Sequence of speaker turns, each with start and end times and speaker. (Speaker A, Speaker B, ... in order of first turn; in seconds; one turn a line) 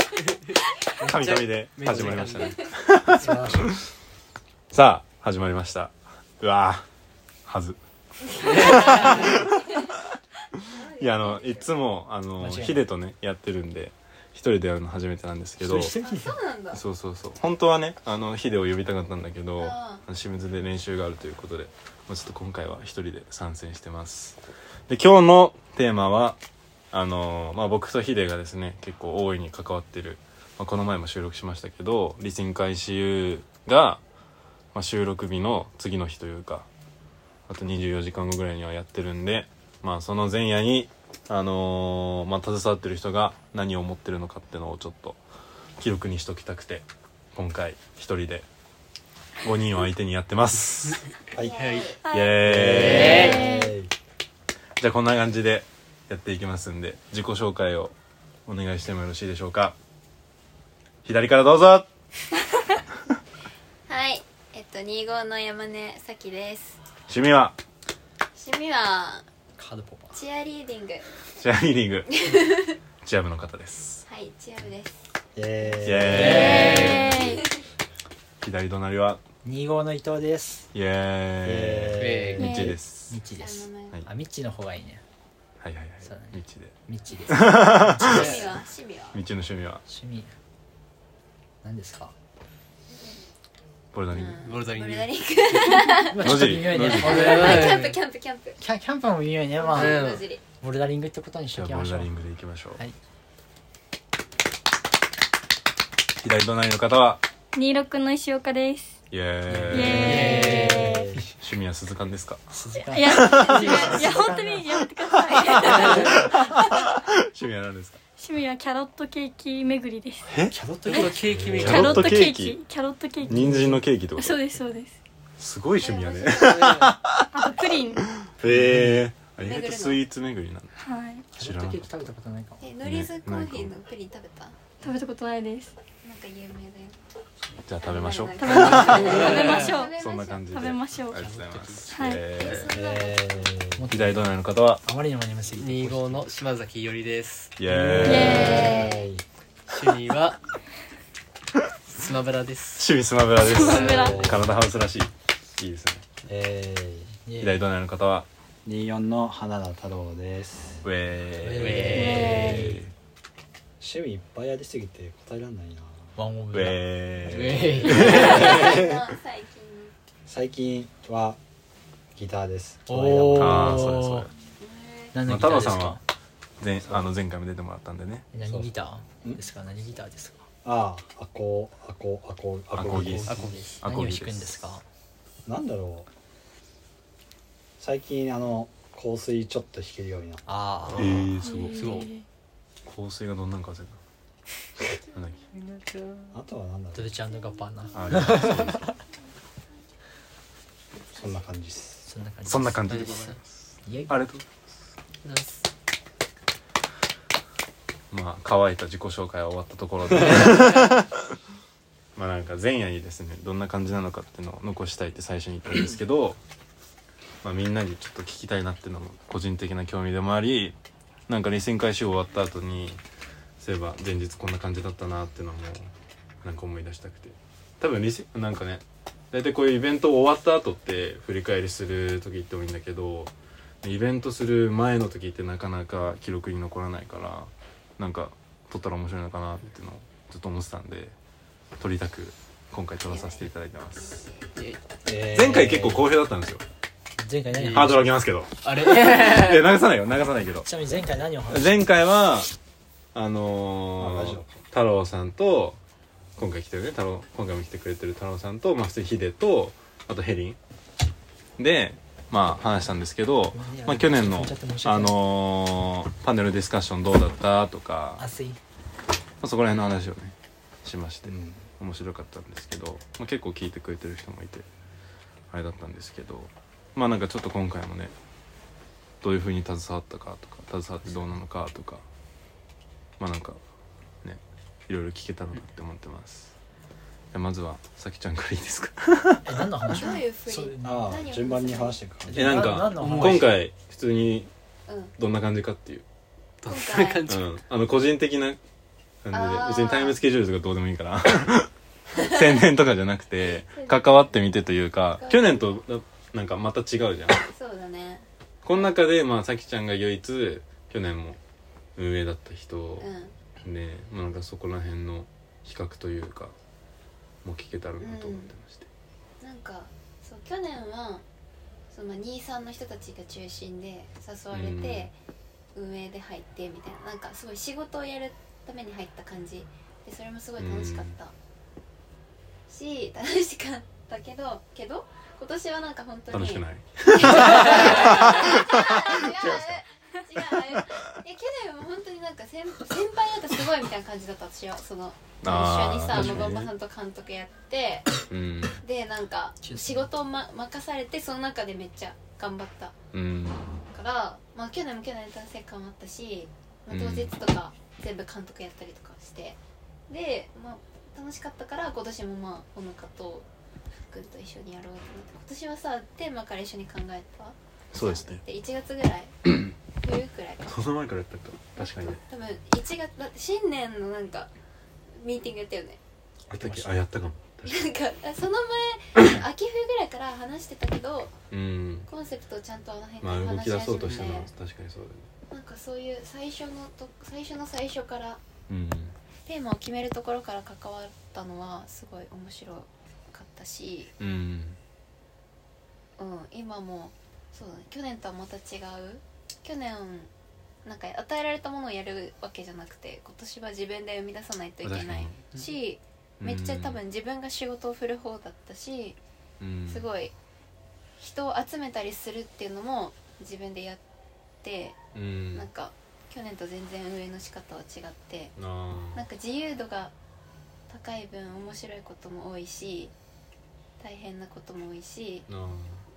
Speaker A: 0.5-2.6
Speaker B: 1.0-3.8
Speaker C: 3.2-3.7
Speaker A: 3.2-3.5
Speaker B: 4.7-6.8
Speaker B: 7.5-7.8
Speaker A: 8.4-9.4
Speaker B: 8.4-9.6
Speaker D: 8.4-9.9
Speaker D: 10.7-11.6
Speaker B: 10.9-15.9
Speaker C: 12.4-12.8
Speaker C: 15.6-16.4
Speaker D: 15.9-16.8
Speaker B: 16.7-26.4
Speaker D: 19.6-20.0
Speaker B: 26.9-34.0
Speaker B: 34.7-36.7
Speaker B: 37.5-45.2
Speaker B: 45.8-48.5
Speaker B: 49.4-51.0
Speaker D: 51.4-52.0
Speaker A: 51.5-52.0
Speaker E: 52.0-53.7
Speaker B: 52.1-53.4
Speaker F: 52.4-53.9
Speaker A: 52.7-53.4
Speaker B: 54.8-57.9
Speaker B: 58.5-59.7
Speaker B: 61.0-61.9
Speaker D: 63.9-66.8
Speaker B: 67.1-67.6
Speaker D: 68.3-69.2
Speaker C: 69.6-70.2
Speaker D: 70.1-71.1
Speaker B: 71.4-72.1
Speaker D: 72.1-72.8
Speaker B: 73.0-74.0
Speaker D: 74.1-75.0
Speaker F: 75.3-76.9
Speaker B: 75.8-77.4
Speaker A: 76.1-77.1
Speaker E: 76.3-77.4
Speaker D: 77.1-77.5
Speaker B: 78.4-79.2
Speaker C: 79.4-80.7
Speaker B: 80.7-83.2
Speaker F: 81.4-82.7
Speaker A: 82.0-82.6
Speaker E: 82.4-82.8
Speaker C: 83.1-85.0
Speaker D: 83.4-84.0
Speaker B: 85.6-86.7
Speaker C: 86.0-88.3
Speaker B: 87.3-88.6
Speaker D: 88.0-89.2
Speaker B: 89.1-89.8
Speaker C: 89.9-90.3
Speaker C: 91.6-92.1
Speaker B: 93.9-94.4
Speaker D: 94.1-98.6
Speaker A: 94.4-95.7
Speaker C: 96.0-97.8
Speaker B: 96.2-97.4
Speaker A: 96.9-98.0
Speaker C: 98.6-100.0
Speaker D: 99.6-100.4
Speaker A: 99.7-100.3
Speaker C: 100.6-102.1
Speaker B: 101.5-102.8
Speaker B: 106.2-107.2
Speaker E: 107.5-109.0
Speaker B: 109.1-110.2
Speaker A: 109.5-110.9
Speaker E: 109.7-111.1
Speaker C: 110.1-110.8
Speaker F: 110.2-111.2
Speaker B: 111.4-112.4
Speaker C: 112.5-114.8
Speaker E: 112.9-116.7
Speaker B: 113.1-114.0
Speaker D: 113.4-114.0
Speaker B: 115.1-118.0
Speaker D: 115.4-115.9
Speaker A: 115.8-116.3
Speaker E: 118.2-120.3
Speaker B: 120.3-120.5
Speaker C: 120.5-121.6
Speaker A: 120.9-122.1
Speaker F: 121.3-121.9
Speaker B: 121.6-122.6
Speaker E: 121.6-123.6
Speaker C: 123.2-123.8
Speaker B: 123.3-124.4
Speaker E: 124.2-124.9
Speaker B: 125.4-127.3
Speaker D: 125.8-126.6
Speaker A: 126.3-126.9
Speaker E: 127.3-128.1
Speaker B: 128.0-130.7
Speaker C: 128.4-129.0
Speaker D: 129.4-130.0
Speaker E: 130.8-131.2
Speaker B: 131.3-132.1
Speaker C: 131.3-132.7
Speaker D: 132.6-134.8
Speaker B: 132.8-133.7
Speaker E: 134.8-135.7
Speaker D: 136.0-137.0
Speaker B: 137.6-142.7
Speaker D: 137.8-140.5
Speaker E: 138.4-141.3
Speaker A: 138.9-139.8
Speaker A: 141.3-141.9
Speaker E: 141.9-142.3
Speaker D: 142.3-143.5
Speaker A: 142.4-142.7
Speaker F: 142.7-143.9
Speaker C: 143.8-144.3
Speaker B: 143.9-144.8
Speaker C: 144.8-146.3
Speaker A: 145.5-148.7
Speaker B: 147.6-148.7
Speaker F: 147.7-149.2
Speaker E: 148.0-148.9
Speaker D: 148.2-149.0
Speaker A: 149.7-150.4
Speaker A: 151.9-152.9
Speaker B: 152.8-156.0
Speaker E: 153.4-154.2
Speaker A: 153.5-154.4
Speaker F: 153.8-154.5
Speaker F: 156.2-157.1
Speaker C: 157.2-157.6
Speaker B: 157.4-158.3
Speaker F: 158.6-160.8
Speaker B: 160.8-162.9
Speaker A: 161.5-162.8
Speaker F: 161.5-162.8
Speaker E: 161.9-162.7
Speaker F: 163.8-166.1
Speaker C: 166.2-166.9
Speaker B: 166.5-169.0
Speaker A: 167.2-168.9
Speaker F: 167.6-168.2
Speaker D: 168.0-169.9
Speaker F: 170.3-171.4
Speaker F: 172.1-173.9
Speaker C: 172.9-174.3
Speaker B: 173.3-174.3
Speaker D: 174.6-175.1
Speaker C: 175.1-176.0
Speaker B: 175.2-176.0
Speaker B: 176.6-178.3
Speaker C: 178.3-180.5
Speaker F: 178.4-178.7
Speaker F: 180.6-183.4
Speaker B: 182.7-184.7
Speaker C: 182.9-184.8
Speaker A: 183.3-183.8
Speaker F: 185.4-186.1
Speaker F: 187.8-190.4
Speaker C: 190.4-191.2
Speaker B: 190.9-191.8
Speaker A: 190.9-192.2
Speaker E: 191.4-192.2
Speaker B: 192.8-194.0
Speaker B: 195.1-195.4
Speaker A: 195.5-196.3
Speaker F: 196.3-197.2
Speaker C: 196.9-198.9
Speaker B: 197.9-198.9
Speaker F: 201.1-202.1
Speaker C: 202.1-202.8
Speaker B: 202.4-203.5
Speaker A: 202.8-203.4
Speaker C: 203.8-204.2
Speaker B: 204.1-204.4
Speaker A: 205.2-205.6
Speaker B: 208.1-211.1
Speaker A: 210.1-210.9
Speaker B: 212.2-216.4
Speaker B: 217.4-220.7
Speaker B: 221.3-223.0
Speaker B: 223.6-225.9
Speaker B: 226.4-241.1
Speaker B: 241.8-244.1
Speaker D: 243.1-244.5
Speaker F: 245.1-246.1
Speaker B: 245.3-246.6
Speaker C: 247.2-248.0
Speaker A: 247.5-248.0
Speaker B: 247.6-250.7
Speaker A: 248.6-249.6
Speaker C: 250.6-251.9
Speaker B: 251.5-252.5
Speaker B: 253.1-255.8
Speaker F: 254.0-254.5
Speaker B: 256.4-260.6
Speaker B: 261.6-268.2
Speaker C: 263.5-265.2
Speaker C: 268.2-268.6
Speaker B: 269.4-274.6
Speaker F: 271.2-271.6
Speaker B: 275.5-278.1
Speaker B: 279.2-282.0
Speaker B: 283.2-283.6
Speaker B: 284.2-286.5
Speaker B: 287.3-289.5
Speaker C: 289.4-291.1
Speaker D: 289.9-292.0
Speaker F: 290.8-292.6
Speaker C: 292.2-293.5
Speaker B: 292.3-294.5
Speaker A: 292.6-293.5
Speaker B: 295.2-296.0
Speaker A: 296.6-297.6
Speaker D: 296.6-297.3
Speaker B: 297.3-298.6
Speaker B: 299.2-307.4
Speaker D: 299.3-300.2
Speaker D: 303.4-304.5
Speaker D: 305.2-305.7
Speaker D: 307.3-308.9
Speaker B: 308.6-311.4
Speaker B: 312.0-313.1
Speaker D: 313.0-313.4
Speaker B: 313.6-316.5
Speaker B: 317.4-318.9
Speaker D: 318.0-318.5
Speaker D: 319.4-321.2
Speaker D: 321.9-325.1
Speaker B: 324.5-325.1
Speaker D: 325.7-331.3
Speaker B: 330.6-331.1
Speaker D: 332.7-348.2
Speaker B: 336.3-339.8
Speaker B: 345.4-346.7
Speaker B: 348.3-348.8
Speaker D: 348.8-352.9
Speaker C: 349.6-350.1
Speaker B: 353.1-353.8
Speaker D: 353.9-363.5
Speaker B: 356.9-357.3
Speaker D: 364.0-369.3
Speaker B: 367.9-368.4
Speaker D: 369.9-370.9
Speaker B: 370.7-372.2
Speaker D: 371.8-374.5
Speaker D: 375.1-376.0
Speaker B: 376.5-377.7
Speaker C: 376.6-377.0
Speaker D: 377.6-381.4
Speaker B: 381.5-382.1
Speaker D: 382.1-384.5
Speaker B: 383.2-385.3
Speaker D: 385.5-388.4
Speaker B: 388.7-389.1
Speaker D: 389.4-394.1
Speaker B: 394.2-394.8
Speaker D: 396.2-400.3
Speaker D: 400.8-409.2
Speaker B: 404.8-405.5
Speaker B: 406.4-407.0
Speaker B: 409.6-410.1
Speaker D: 409.9-410.3
Speaker D: 411.2-414.0
Speaker D: 414.6-415.0
Speaker B: 415.1-415.7
Speaker D: 415.5-418.5
Speaker B: 418.6-419.2
Speaker D: 419.1-420.1
Speaker D: 420.9-423.1
Speaker D: 424.0-425.5
Speaker B: 425.5-426.0